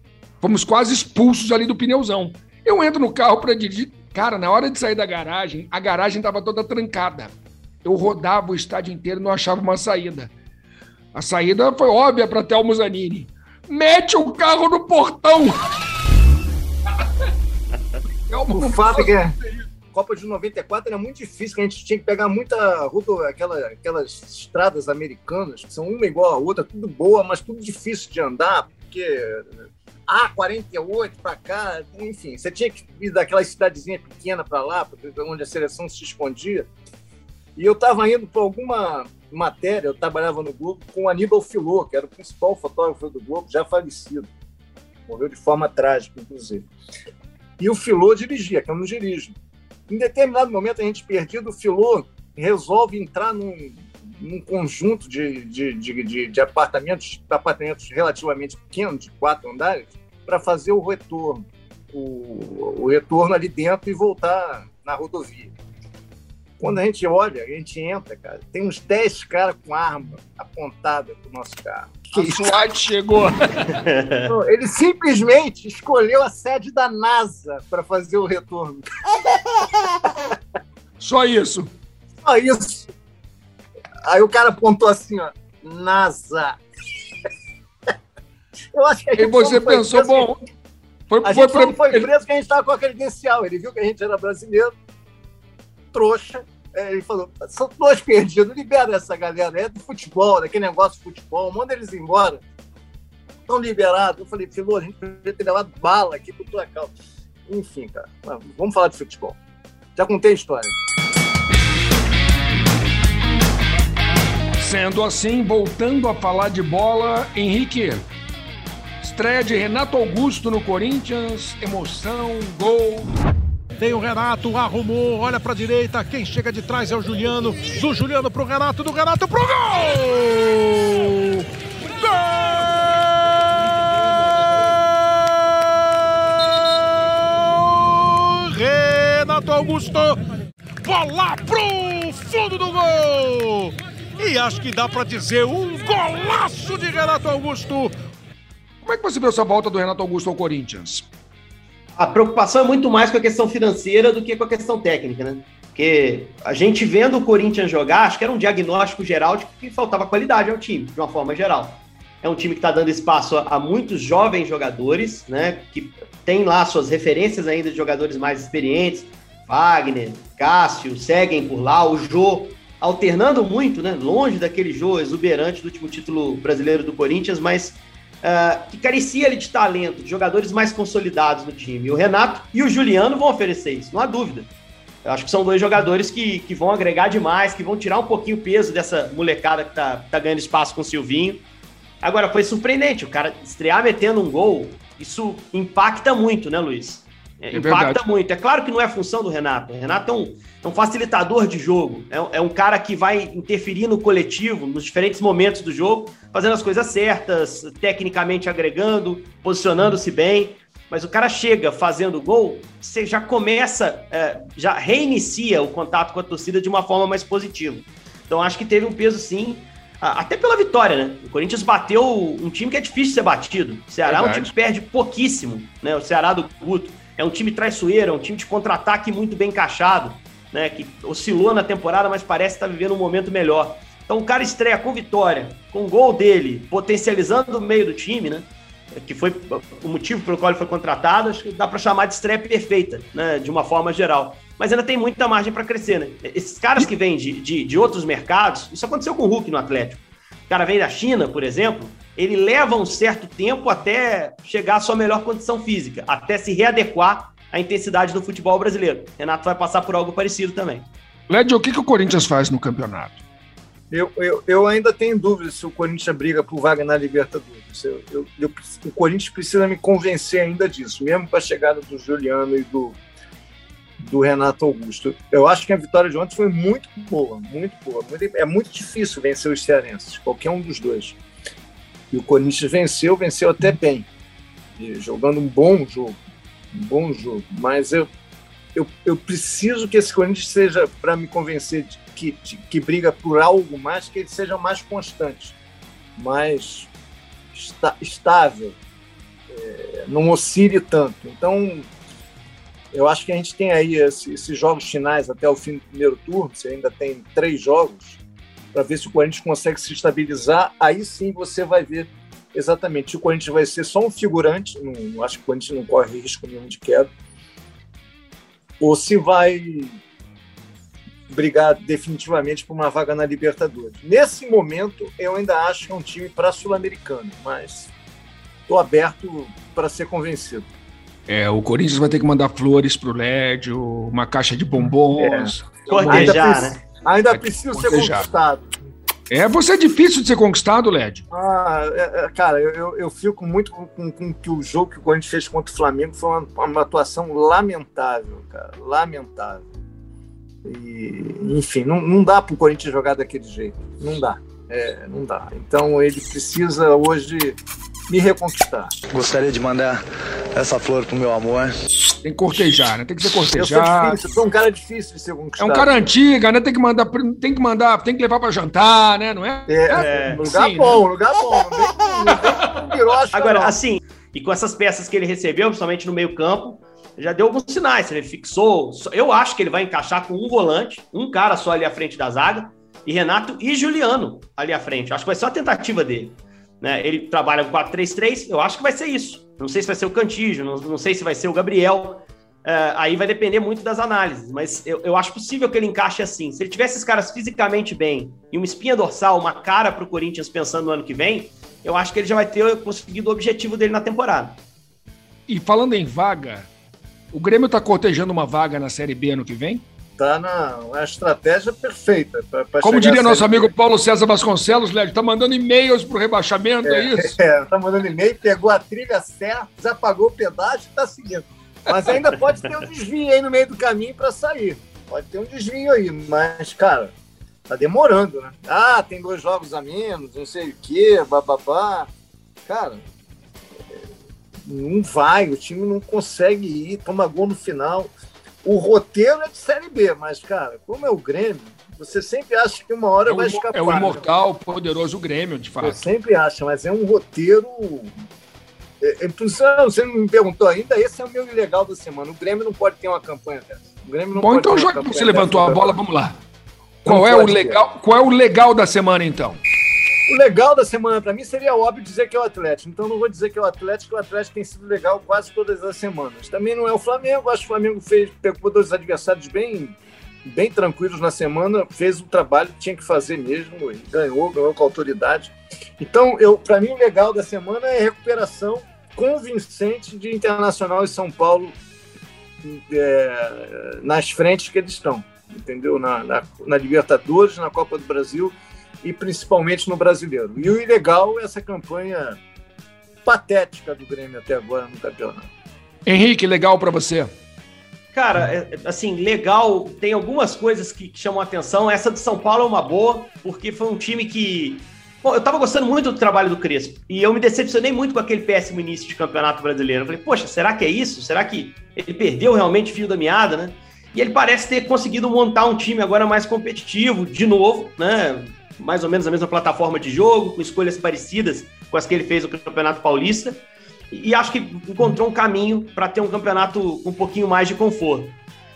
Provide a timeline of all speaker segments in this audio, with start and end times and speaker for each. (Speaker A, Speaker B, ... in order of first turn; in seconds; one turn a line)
Speaker A: 0.4-7.3
Speaker A: 7.8-10.3
Speaker A: 11.1-15.6
Speaker A: 18.2-19.1
Speaker B: 18.5-19.4
Speaker B: 19.9-29.5
Speaker B: 30.1-36.7
Speaker B: 37.5-44.3
Speaker B: 45.1-46.7
Speaker B: 47.6-49.3
Speaker B: 49.9-65.5
Speaker B: 66.6-72.6
Speaker A: 72.1-73.7
Speaker C: 73.7-74.3
Speaker B: 74.3-78.8
Speaker A: 81.0-81.7
Speaker B: 82.2-82.9
Speaker B: 84.0-86.6
Speaker B: 88.7-90.3
Speaker A: 89.2-90.4
Speaker A: 91.1-92.1
Speaker B: 91.2-94.7
Speaker B: 95.9-102.4
Speaker B: 103.5-106.9
Speaker B: 107.5-109.4
Speaker B: 110.0-110.8
Speaker A: 114.6-118.0
Speaker A: 119.0-123.1
Speaker D: 123.8-133.7
Speaker D: 134.3-140.2
Speaker D: 140.8-147.9
Speaker A: 148.8-151.1
Speaker C: 152.0-184.5
Speaker C: 185.0-191.4
Speaker C: 192.0-260.9
Speaker A: 197.5-198.0
Speaker A: 224.1-224.5
Speaker A: 261.3-263.2
Speaker B: 263.9-273.0
Speaker B: 274.0-281.1
Speaker B: 282.1-284.1
Speaker B: 284.8-286.2
Speaker B: 286.7-288.1
Speaker B: 288.7-295.6
Speaker B: 296.2-296.9
Speaker B: 297.5-298.8
Speaker B: 299.5-301.9
Speaker B: 302.9-308.2
Speaker B: 308.7-317.1
Speaker B: 318.8-320.0
Speaker B: 321.3-327.9
Speaker B: 328.7-330.7
Speaker A: 331.3-336.5
Speaker B: 335.1-335.5
Speaker C: 335.9-336.8
Speaker B: 336.1-338.7
Speaker A: 337.3-338.3
Speaker A: 339.3-341.2
Speaker B: 341.3-349.6
Speaker B: 350.6-357.6
Speaker B: 358.1-358.9
Speaker E: 359.1-360.0
Speaker E: 360.5-361.7
Speaker A: 362.2-364.2
Speaker B: 363.5-366.0
Speaker A: 365.6-371.0
Speaker B: 369.7-373.7
Speaker C: 369.9-370.4
Speaker C: 373.3-404.6
Speaker A: 405.5-406.7
Speaker A: 407.3-409.8
Speaker B: 410.2-413.7
Speaker A: 412.8-417.3
Speaker B: 416.8-427.1
Speaker B: 427.7-432.1
Speaker B: 432.7-433.0
Speaker B: 434.6-438.1
Speaker B: 438.6-444.2
Speaker A: 443.2-446.1
Speaker B: 445.8-448.1
Speaker B: 449.0-456.0
Speaker A: 454.4-456.4
Speaker A: 457.0-459.6
Speaker B: 457.1-457.8
Speaker B: 460.3-481.8
Speaker B: 482.6-492.4
Speaker B: 493.2-495.5
Speaker A: 496.1-497.3
Speaker C: 498.1-528.4